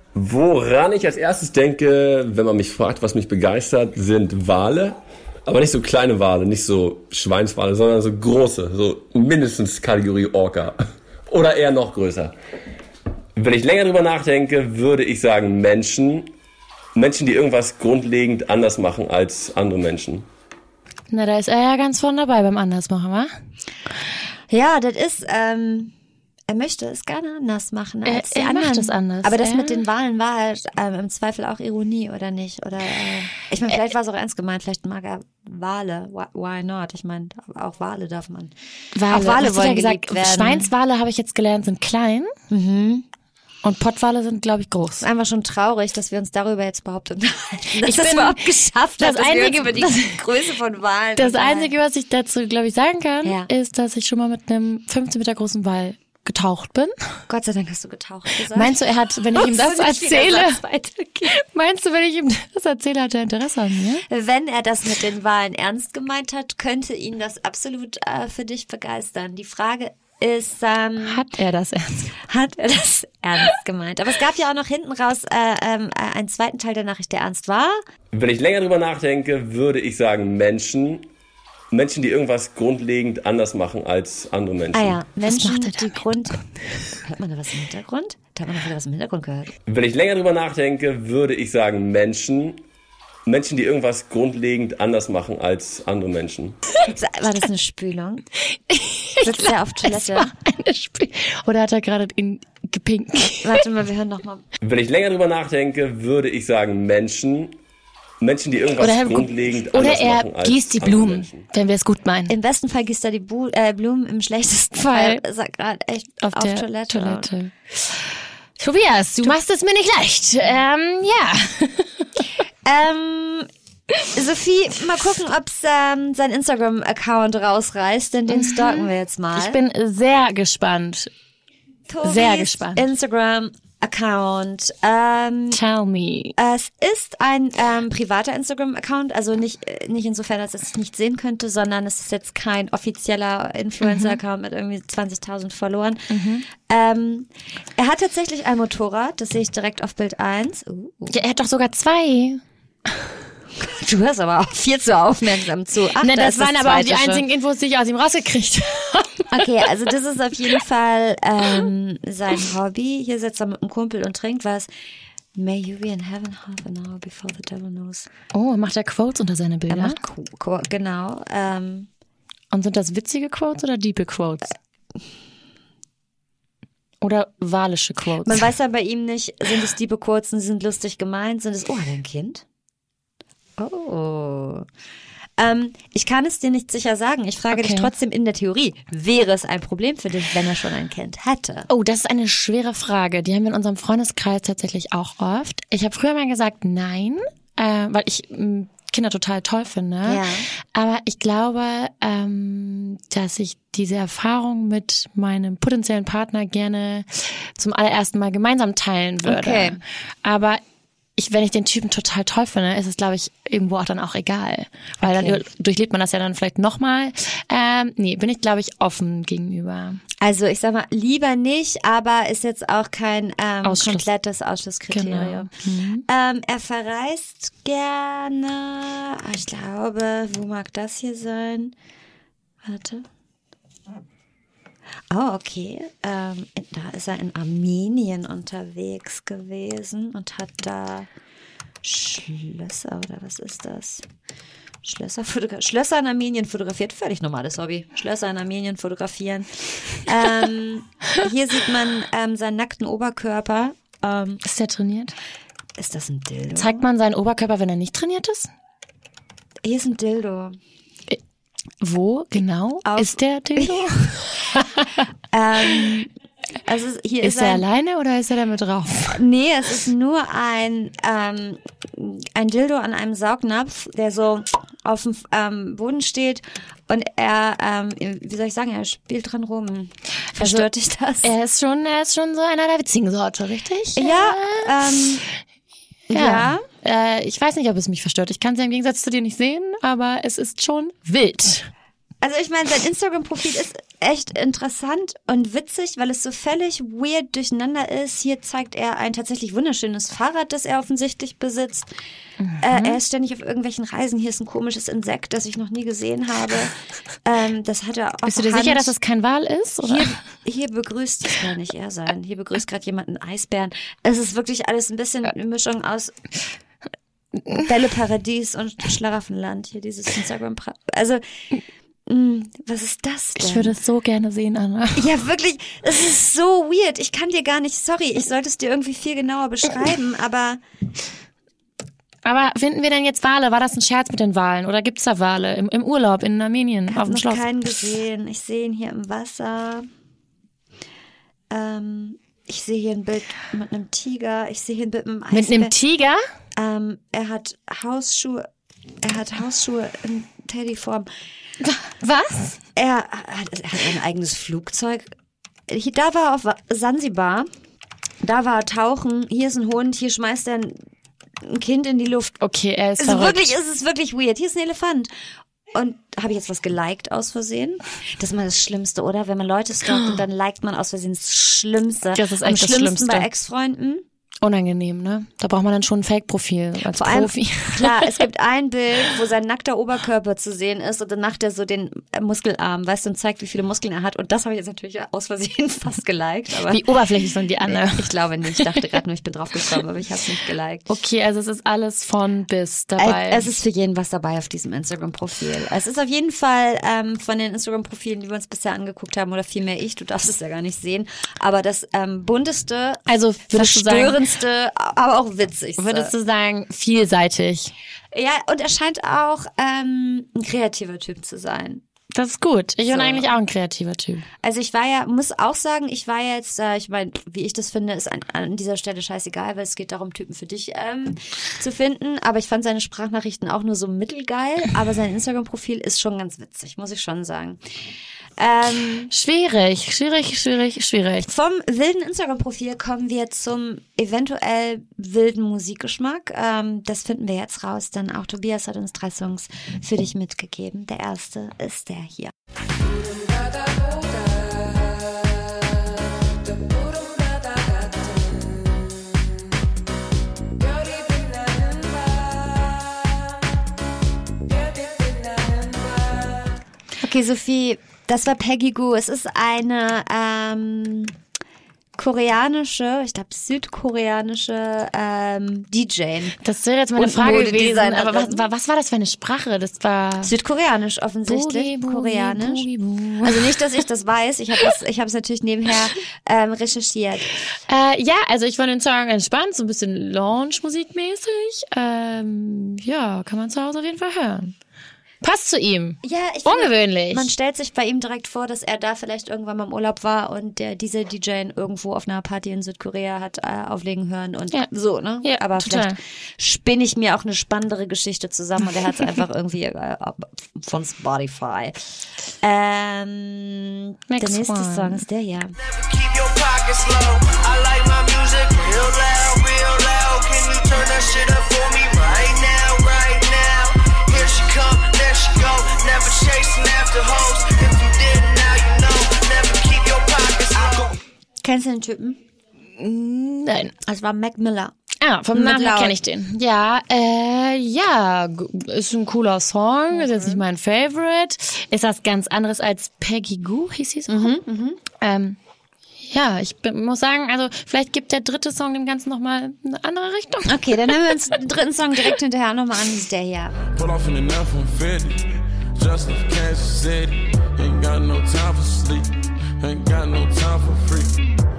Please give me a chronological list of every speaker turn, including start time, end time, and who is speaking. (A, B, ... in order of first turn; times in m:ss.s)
0:00.1-0:12.3 A
0:13.4-0:16.3 A
0:16.9-0:20.3 A
0:21.1-0:23.3 B
0:24.5-0:25.9 C
0:26.5-0:38.5 C
0:28.0-0:29.8 B
0:38.9-0:42.3 B
0:39.0-0:40.7 C
0:42.5-0:43.0 C
0:43.6-0:45.0 B
0:45.0-0:51.7 C
0:47.8-0:48.5 B
0:49.0-0:50.2 B
0:51.2-0:56.9 B
0:53.2-0:53.5 C
0:57.3-0:58.8 C
0:58.5-1:00.6 B
0:59.3-1:01.4 C
1:01.3-1:04.0 B
1:04.1-1:11.2 C
1:11.0-1:12.1 B
1:12.2-1:17.8 C
1:18.1-1:21.1 A
1:21.7-1:25.0 A
1:24.7-1:29.5 C
1:25.2-1:26.0 B
1:29.7-1:32.6 A
1:33.2-1:36.6 A
1:36.8-1:38.2 C
1:38.7-1:43.6 B
1:39.2-1:40.3 C
1:43.4-1:44.4 C
1:44.6-1:47.6 A
1:48.2-1:51.5 A
1:48.8-1:52.4 B
1:52.3-1:57.3 C
1:54.9-1:55.2 B
1:56.2-1:57.5 B
1:58.6-2:02.1 B
2:02.6-2:03.5 C
2:04.1-2:09.6 C
2:08.3-2:11.1 B
2:11.9-2:15.6 C
2:12.0-2:12.8 B
2:15.5-2:16.3 B
2:16.4-2:31.2 C
2:23.8-2:24.1 B
2:26.1-2:26.4 B
2:31.1-2:32.4 B
2:33.6-2:37.2 C
2:36.0-2:39.3 B
2:39.3-2:44.7 C
2:45.3-2:48.1 C
2:48.3-2:50.0 B
2:49.7-2:51.9 C
2:52.5-2:54.5 B
2:57.0-2:58.4 B
2:58.2-3:02.4 C
3:03.6-3:04.7 C
3:05.4-3:11.7 C
3:07.5-3:07.9 B
3:11.7-3:30.6 B
3:20.0-3:20.4 C
3:29.2-3:29.8 C
3:31.2-3:40.0 B
3:35.0-3:35.4 C
3:40.2-3:45.5 C
3:43.6-3:44.0 B
3:44.9-3:46.0 B
3:46.0-3:51.7 C
3:52.6-3:53.1 C
3:55.1-4:01.1 C
4:01.8-4:04.0 C
4:04.8-4:14.4 C
4:14.4-4:15.1 B
4:15.8-4:16.8 C
4:16.5-4:18.5 B
4:19.6-4:20.6 C
4:21.8-4:24.9 B
4:22.8-4:23.9 C
4:25.3-4:26.1 C
4:26.6-4:27.6 C
4:27.2-4:29.2 B
4:29.1-4:41.3 C
4:40.4-4:40.7 B
4:41.2-4:44.7 B
4:44.0-4:45.2 C
4:46.1-4:46.6 C
4:46.1-4:51.7 B
4:52.2-5:01.9 C
5:02.4-5:03.0 B
5:02.6-5:08.9 C
5:08.3-5:10.1 B
5:09.8-5:16.1 C
5:17.5-5:21.2 C
5:22.1-5:23.8 C
5:23.4-5:25.1 B
5:24.9-5:30.6 C
5:32.2-5:37.4 B
5:36.9-5:39.9 C
5:41.5-5:45.7 C
5:45.3-5:46.2 B
5:46.6-5:48.4 C
5:49.0-5:51.1 C
5:51.7-5:52.6 B
5:52.8-5:55.1 C
5:55.7-5:57.5 C
5:58.2-6:00.8 C
6:01.4-6:02.4 C
6:02.4-6:03.5 B
6:03.0-6:05.1 C
6:05.7-6:14.0 C
6:12.1-6:13.3 B
6:14.4-6:18.2 B
6:16.9-6:26.9 C
6:26.7-6:28.6 B
6:27.6-6:30.9 C
6:30.9-6:33.5 B
6:33.0-6:46.1 C
6:43.1-6:44.2 B
6:45.8-6:47.7 B
6:48.1-6:51.8 C
6:52.1-6:54.2 B
6:52.9-6:53.3 C
6:54.4-7:07.6 C
7:08.4-7:09.1 C
7:09.1-7:11.3 B
7:11.2-7:22.3 C
7:22.8-7:29.4 C
7:30.6-7:33.3 C
7:34.5-7:36.4 C
7:37.0-7:41.1 C
7:42.0-7:46.4 C
7:46.4-7:50.3 B
7:47.0-7:48.4 C
7:50.2-7:52.6 C
7:51.3-7:53.5 B
7:53.2-7:57.3 C
7:57.7-8:04.5 B
8:05.2-8:07.3 B
8:06.0-8:21.8 C
8:15.2-8:16.0 B
8:22.4-8:25.5 C
8:24.1-8:25.0 B
8:25.6-8:41.0 D
8:41.4-8:42.2 C
8:42.8-8:43.7 B
8:43.8-8:44.7 C
8:45.0-8:54.4 B
8:45.3-8:46.0 C
8:49.9-8:50.4 C
8:54.1-8:54.8 C
8:54.9-8:55.4 B
8:56.1-9:01.0 B
9:00.4-9:03.6 C
9:03.7-9:11.2 E